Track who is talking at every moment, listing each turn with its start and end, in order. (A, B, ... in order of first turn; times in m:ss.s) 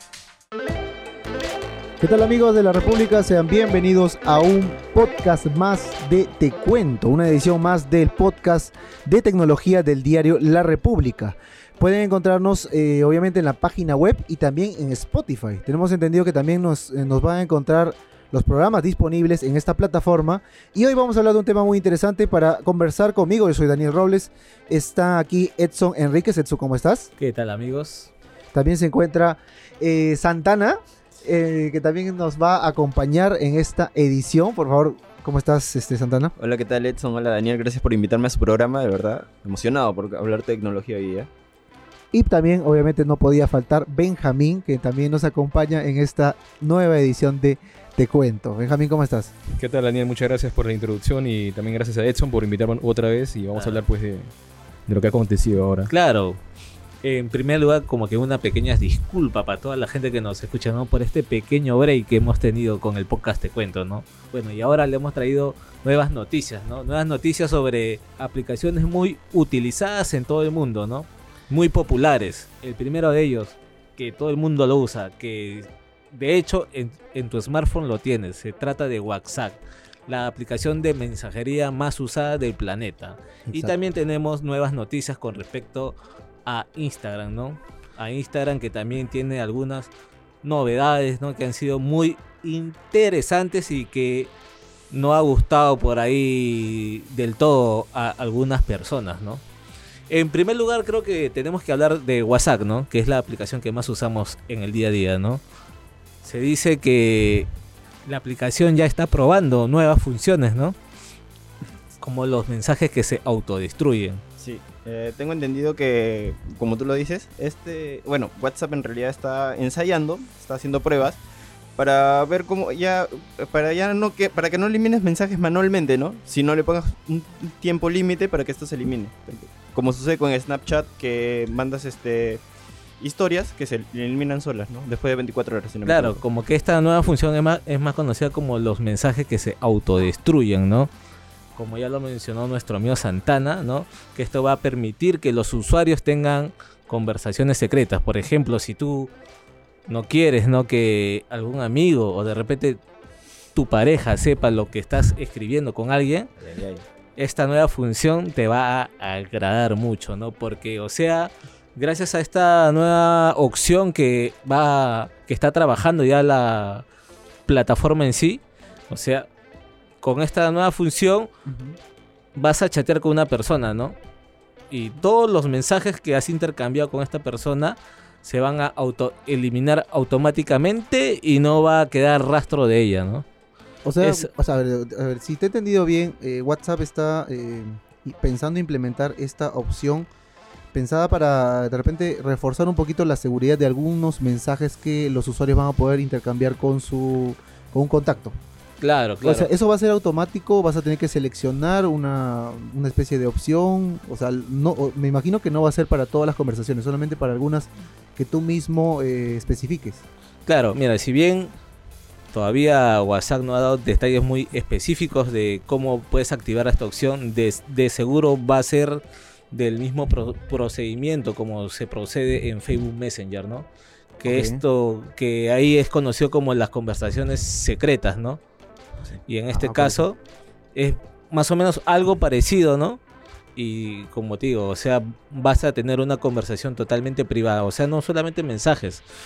0:02.0-0:27.1 A
0:27.2-0:28.1 B
0:28.5-0:36.3 A
0:36.4-0:41.3 C
0:42.1-0:49.3 A
0:49.5-0:54.3 D
0:53.5-0:53.8 B
0:54.9-0:55.9 D
0:55.9-0:56.4 B
0:57.0-1:25.9 B
1:23.5-1:23.7 A
1:26.4-1:29.9 B
1:30.4-1:34.3 B
1:34.9-1:39.4 B
1:40.1-1:45.4 B
1:46.2-1:47.5 B
1:48.0-1:50.8 B
1:52.0-1:54.2 B
1:54.4-2:01.2 C
2:01.8-2:12.4 C
2:13.0-2:16.2 C
2:15.8-2:20.9 B
2:21.5-2:29.1 B
2:29.9-2:32.8 B
2:33.5-2:36.3 B
2:36.4-2:36.8 C
2:37.2-2:46.8 B
2:47.5-2:49.3 B
2:50.0-2:51.3 B
2:51.4-2:51.8 A
2:52.3-2:54.0 B
2:54.7-3:03.2 B
3:03.8-3:10.1 A
3:04.0-3:04.3 B
3:10.7-3:18.4 A
3:18.8-3:19.5 B
3:19.2-3:30.0 A
3:30.4-3:31.5 B
3:32.3-3:43.7 B
3:44.2-3:48.4 B
3:44.2-3:44.6 A
3:49.2-3:50.2 B
3:49.5-3:50.0 A
3:50.7-3:53.0 B
3:53.6-3:59.0 B